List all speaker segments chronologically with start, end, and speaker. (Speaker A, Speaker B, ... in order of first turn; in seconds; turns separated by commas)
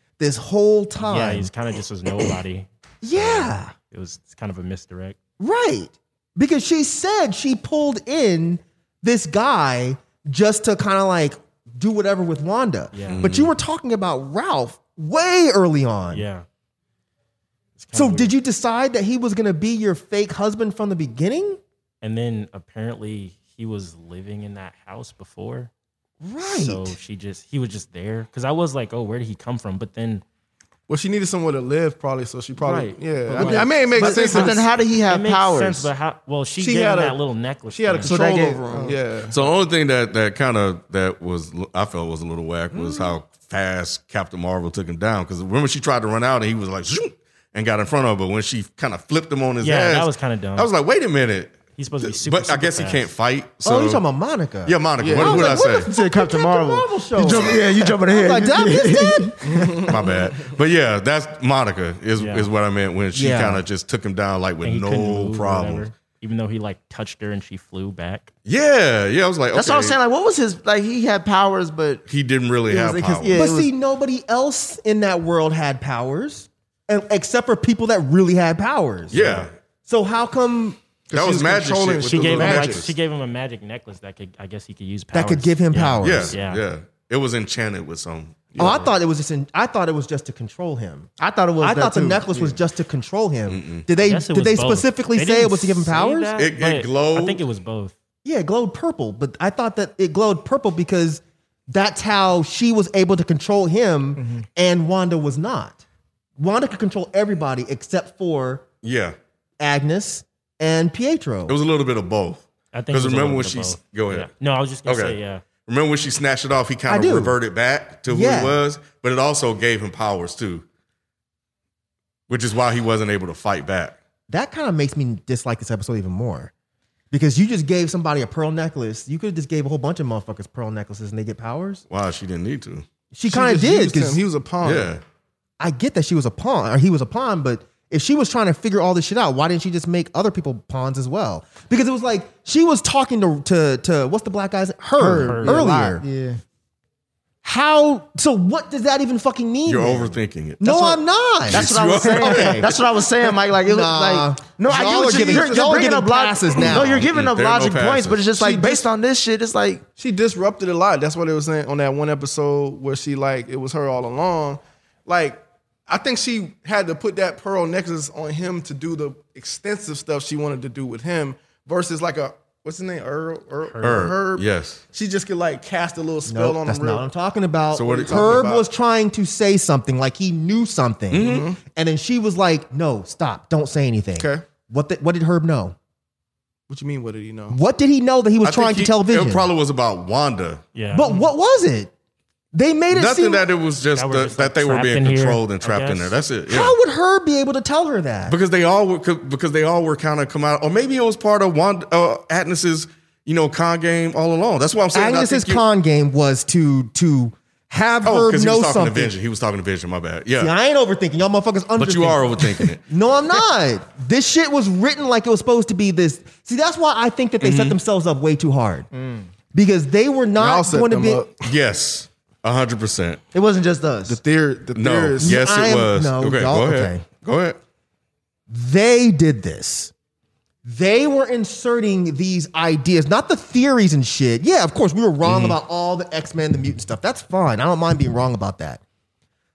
Speaker A: 0.2-1.5, Speaker B: 1.0-5.2, Speaker A: 3.0-3.7, Speaker A: 5.4-16.2, Speaker B: 12.9-13.3, Speaker C: 13.1-13.5, Speaker B: 16.1-16.5, Speaker B: 17.8-18.3, Speaker A: 17.9-21.6, Speaker B: 22.0-25.7, Speaker A: 26.2-27.0, Speaker B: 26.5-30.2, Speaker D: 30.9-34.6, Speaker B: 32.6-38.1, Speaker E: 33.4-35.9, Speaker D: 36.6-39.4, Speaker E: 38.0-39.0, Speaker C: 39.3-54.0, Speaker B: 49.6-50.7, Speaker B: 51.8-53.0, Speaker A: 53.6-59.4, Speaker C: 54.6-55.9, Speaker D: 55.0-55.7, Speaker E: 55.8-59.3, Speaker D: 59.4-60.2, Speaker C: 59.9-65.9, Speaker B: 62.2-62.5, Speaker A: 63.1-63.6, Speaker B: 64.6-68.3, Speaker C: 68.5-70.0, Speaker E: 69.5-72.0, Speaker C: 72.1-73.4, Speaker E: 72.7-73.7, Speaker A: 73.3-80.8, Speaker C: 79.1-79.5, Speaker D: 81.1-82.9, Speaker C: 81.1-82.9, Speaker B: 82.1-86.6, Speaker A: 85.1-86.3, Speaker C: 86.0-88.5, Speaker A: 88.6-96.3, Speaker E: 91.2-92.5, Speaker C: 93.5-93.8, Speaker B: 94.0-97.9, Speaker C: 96.4-97.4, Speaker A: 98.2-105.8, Speaker A: 106.4-108.6, Speaker C: 108.8-109.1, Speaker A: 109.6-111.6, Speaker C: 111.5-114.3, Speaker B: 112.7-115.4, Speaker C: 114.9-120.6, Speaker A: 116.9-117.4, Speaker A: 118.1-118.6, Speaker C: 122.3-124.0, Speaker A: 124.3-126.5, Speaker A: 127.1-131.8, Speaker C: 131.9-132.8, Speaker A: 133.1-134.2, Speaker D: 133.3-135.0, Speaker C: 134.6-135.0, Speaker A: 135.6-146.0, Speaker E: 145.0-146.4, Speaker B: 145.1-145.7, Speaker A: 147.4-152.7, Speaker C: 149.7-152.8, Speaker E: 151.5-159.8, Speaker A: 153.6-157.1, Speaker D: 154.7-155.8, Speaker C: 156.7-158.2, Speaker D: 158.3-158.8, Speaker D: 160.0-177.1, Speaker B: 173.6-174.1, Speaker C: 173.8-174.8, Speaker A: 176.3-185.8, Speaker C: 177.7-178.5, Speaker D: 177.8-178.6, Speaker C: 181.1-181.5, Speaker D: 181.2-181.6, Speaker D: 184.2-184.4, Speaker D: 186.7-187.6, Speaker A: 187.5-189.5, Speaker C: 188.4-190.6, Speaker B: 190.8-191.2, Speaker A: 190.9-191.9, Speaker A: 192.5-193.5, Speaker C: 192.9-196.8, Speaker B: 193.9-196.1, Speaker A: 196.5-198.4, Speaker C: 198.3-205.6, Speaker A: 204.9-209.2, Speaker C: 208.1-210.5, Speaker A: 210.4-218.9, Speaker C: 211.8-212.8, Speaker C: 217.4-217.8, Speaker A: 219.5-221.2, Speaker D: 220.4-221.4, Speaker C: 221.4-223.2, Speaker E: 223.3-224.2, Speaker D: 224.1-225.4, Speaker C: 224.8-227.6, Speaker A: 225.2-227.0, Speaker A: 228.5-229.9, Speaker A: 230.6-238.8, Speaker C: 235.2-235.6